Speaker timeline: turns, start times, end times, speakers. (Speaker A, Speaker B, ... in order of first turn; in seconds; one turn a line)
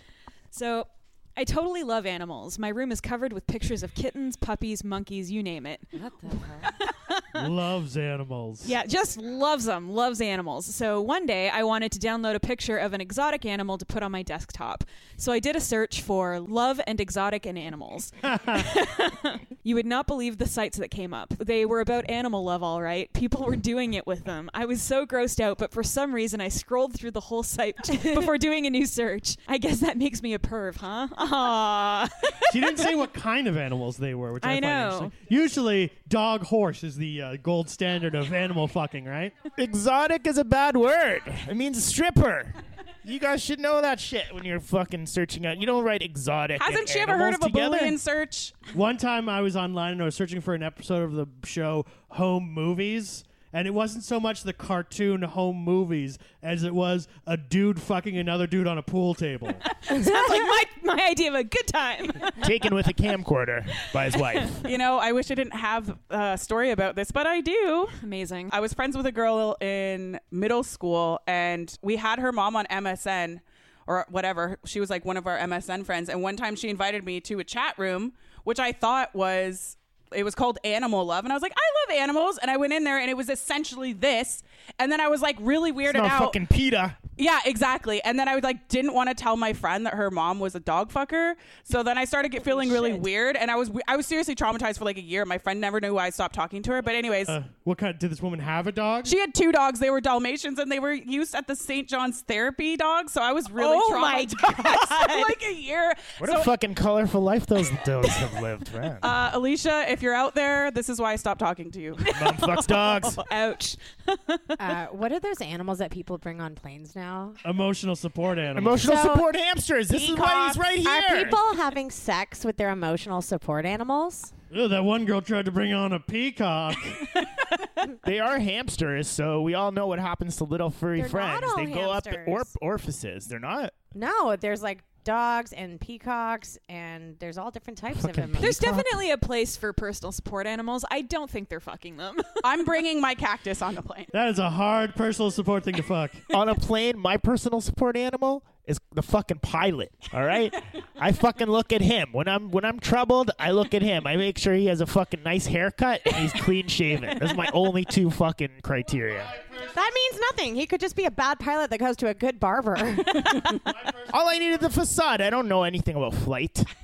Speaker A: 0.5-7.4
Speaker B: 5.9-6.7
Speaker C: 7.3-8.7
Speaker A: 8.6-32.9
Speaker C: 18.2-18.6
Speaker C: 32.5-39.4
Speaker A: 34.4-35.1
Speaker D: 39.6-48.0
Speaker E: 46.6-48.7
Speaker C: 48.7-59.6
Speaker A: 59.7-62.5
Speaker D: 62.4-64.6
Speaker E: 64.6-68.0
Speaker A: 68.0-68.5
Speaker E: 68.5-86.4
Speaker D: 85.8-87.0
Speaker E: 87.2-97.4
Speaker B: 92.4-93.0
Speaker C: 97.3-99.1
Speaker E: 99.0-106.5
Speaker A: 103.5-105.3
Speaker D: 106.2-109.1
Speaker E: 109.0-112.0
Speaker A: 112.0-114.7
Speaker D: 112.1-113.2
Speaker B: 114.6-117.4
Speaker C: 117.4-119.0
Speaker D: 118.5-121.4
Speaker B: 118.8-119.3
Speaker B: 119.9-124.3
Speaker C: 124.5-127.1
Speaker D: 128.0-133.7
Speaker B: 130.9-132.5
Speaker B: 133.9-138.5
Speaker D: 137.9-138.9
Speaker A: 138.4-142.4
Speaker E: 142.4-144.1
Speaker C: 144.1-146.2
Speaker D: 146.3-159.3
Speaker C: 159.0-159.9
Speaker B: 159.6-163.6
Speaker C: 163.7-164.7
Speaker D: 164.1-166.7